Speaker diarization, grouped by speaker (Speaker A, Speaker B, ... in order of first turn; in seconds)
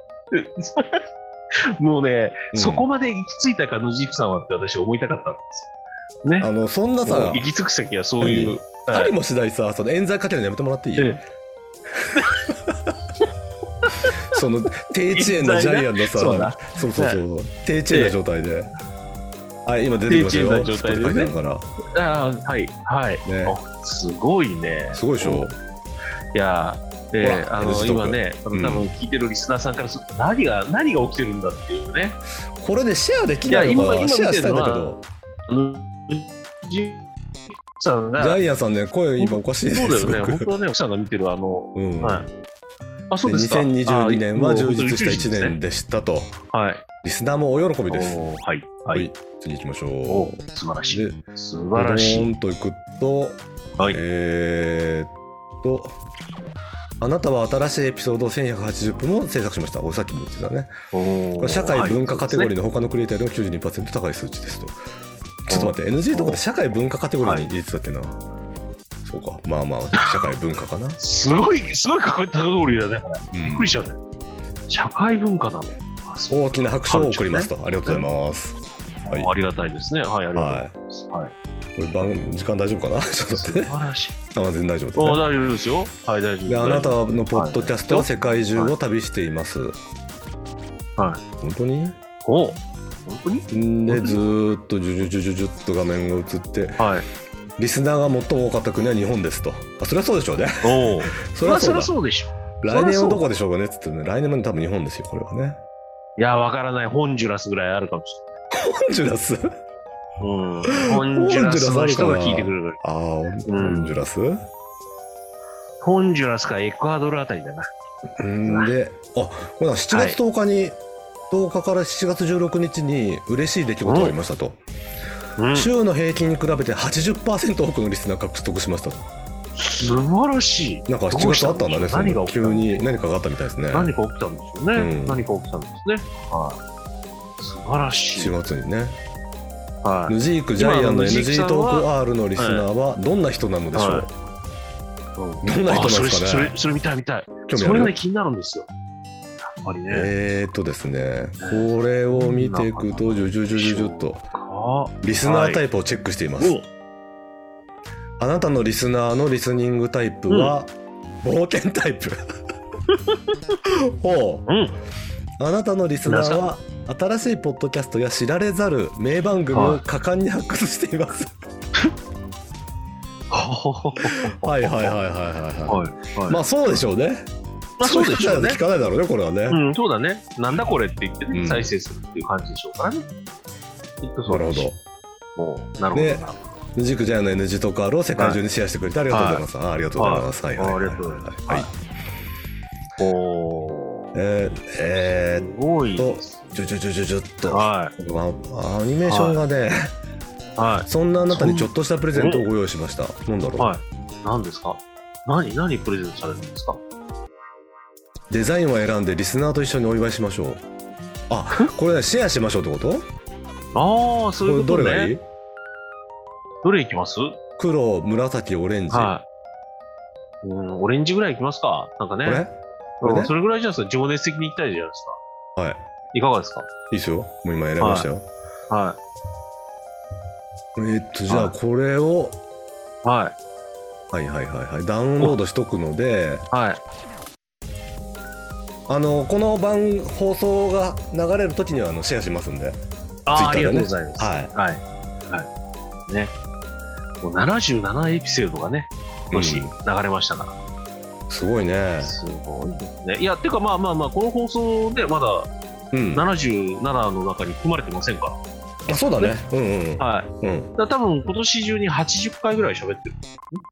Speaker A: 0.3-1.0, 1.8-5.7, 6.2-6.5, 7.0-9.1, 13.8-14.1, 15.1-17.2, 17.9-18.1, 20.1-21.3, 21.9-25.6, 26.3-32.2, 33.5-34.9, 35.5-37.0, 37.7-38.4, 39.2-42.3, 43.1-45.6, 46.5-46.8, 47.9-49.1, 50.1-52.3, 60.9-62.5, 65.5-66.4, 67.2-67.5, 70.0-70.3, 71.0-74.0, 74.7-78.0, 79.1-81.3, 83.3-84.2, 85.0-88.7, 91.0-91.2, 92.2-94.2, 96.8-97.1, 100.6-103.2, 106.2-108.2, 110.2-112.8, 113.5-114.0, 115.8-117.7, 118.5-118.7, 119.9-120.2, 123.8-124.2, 125.4-125.7, 129.6-132.8, 133.7-136.6, 137.4-138.3, 139.8-142.7, 143.7-144.1, 145.2-148.7, 149.6-150.1, 151.4-155.6, 156.4-156.7, 160.3-160.5, 162.9-163.2, 164.5-164.7, 166.0-166.5, 169.5-169.8, 173.3-175.0, 175.7-176.4, 177.8-178.6, 179.5-183.1, 184.0-184.7, 185.3-186.4, 188.2-188.4, 189.1-189.4, 190.0-191.7, 193.0-194.1, 195.0-196.8, 197.5-197.9, 199.1-199.4, 200.6-202.4, 203.6-206.8, 213.7-215.1, 216.6-217.3, 218.9-219.2, 220.4-222.4, 223.0-225.2, 226.1-226.7, 227.8-228.1, 228.7-229.0, 231.3-231.5, 233.0-233.3, 236.5-236.8, 243.3-245.5, 246.1-246.3, 247.2-250.5, 252.0-255.5, 256.1-258.4, 260.0-263.6
Speaker B: 2.5-2.8, 6.4-7.5, 8.2-11.2, 12.5-12.7, 14.3-18.7, 19.6-21.7, 23.2-23.6, 24.9-25.5, 27.2-28.9, 32.6-35.0, 38.2-40.5, 41.7-42.3, 43.2-46.3, 47.0-48.2, 48.9-51.2, 51.7-55.9, 57.0-60.7, 61.4-64.8, 65.5-68.2, 69.0-71.0, 73.3-73.7, 76.3-79.3, 80.3-80.7, 81.8-83.7, 84.3-85.2, 86.5-89.7, 91.4-92.0, 93.5-96.8, 97.6-101.9, 102.6-105.6, 108.5-109.5, 110.7-114.4, 118.2-120.8, 121.3-124.6, 125.5-129.0, 130.9-133.9, 134.7-135.2, 138.2-139.0, 140.1-144.1, 145.4-146.5, 147.5-147.9, 149.9-154.2, 155.0-156.6, 158.2-162.2, 164.0-164.5, 165.4-171.3, 174.0-177.3, 177.8-179.6, 181.3-181.7, 184.3-184.8, 185.9-191.7, 194.1-199.7, 200.9-203.7, 208.3-210.6, 211.3-213.1, 214.4-215.2, 217.6-219.1, 222.2-223.3, 225.6-225.8, 226.9-228.3, 230.8-232.4, 234.1-236.5, 238.9-242.8, 243.3-244.5, 249.3-249.7, 251.3-252.2, 255.9-256.3, 258.9-260.7